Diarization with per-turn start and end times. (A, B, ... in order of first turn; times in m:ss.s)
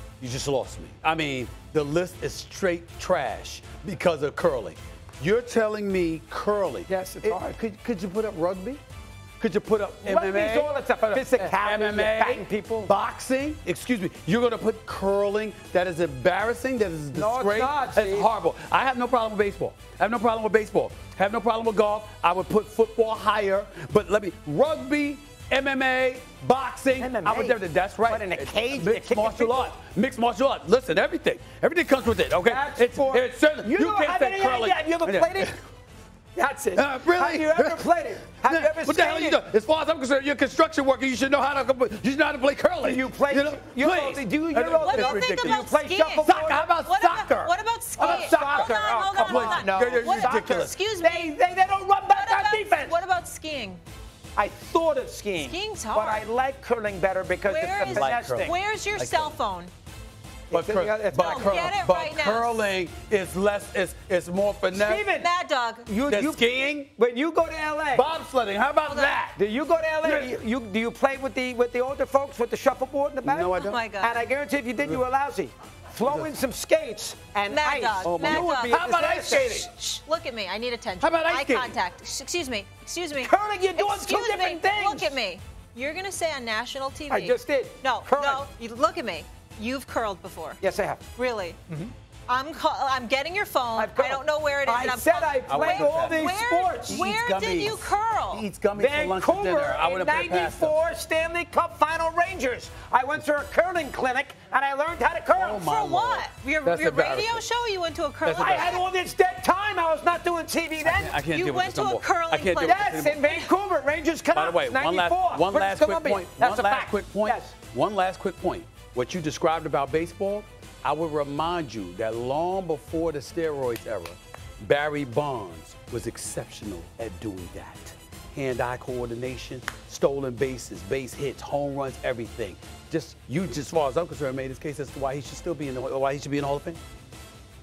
0:00.2-0:08.8 A
0:06.9-0:07.6 B
0:09.4-0:35.6 A
0:10.0-0:12.9 B
0:17.1-0:18.3 B
0:27.0-0:29.7 B
0:32.4-0:35.6 B
0:36.3-0:39.4 B
0:36.7-0:37.9 A
0:38.4-0:45.6 A
0:42.8-0:46.6 B
0:44.8-0:51.3 C
0:46.2-0:50.8 A
0:48.0-0:53.0 B
0:52.1-0:53.8 C
0:54.4-0:58.6 B
0:55.4-0:56.2 C
0:57.4-0:59.7 C
0:57.8-0:59.3 A
1:00.5-1:01.7 B
1:00.5-1:05.0 A
1:01.2-1:02.6 C
1:04.7-1:05.3 B
1:05.1-1:05.9 C
1:05.9-1:08.0 B
1:06.1-1:06.9 A
1:07.9-1:09.4 A
1:08.8-1:09.2 C
1:09.3-1:19.7 B
1:10.0-1:10.3 A
1:13.2-1:13.8 A
1:13.6-1:14.2 C
1:17.5-1:18.8 C
1:18.0-1:19.7 A
1:19.4-1:30.6 C
1:21.0-1:21.8 A
1:23.2-1:25.2 B
1:27.1-1:28.4 B
1:30.6-1:31.0 B
1:31.1-1:31.6 C
1:32.3-1:38.4 C
1:33.8-1:37.0 B
1:35.5-1:36.3 A
1:36.8-1:40.8 A
1:38.8-1:45.7 B
1:45.4-1:47.4 A
1:45.6-1:48.8 C
1:48.2-1:48.7 A
1:48.2-1:51.2 B
1:50.8-1:53.2 A
1:51.2-1:53.5 C
1:52.6-1:57.5 B
1:54.3-2:16.8 A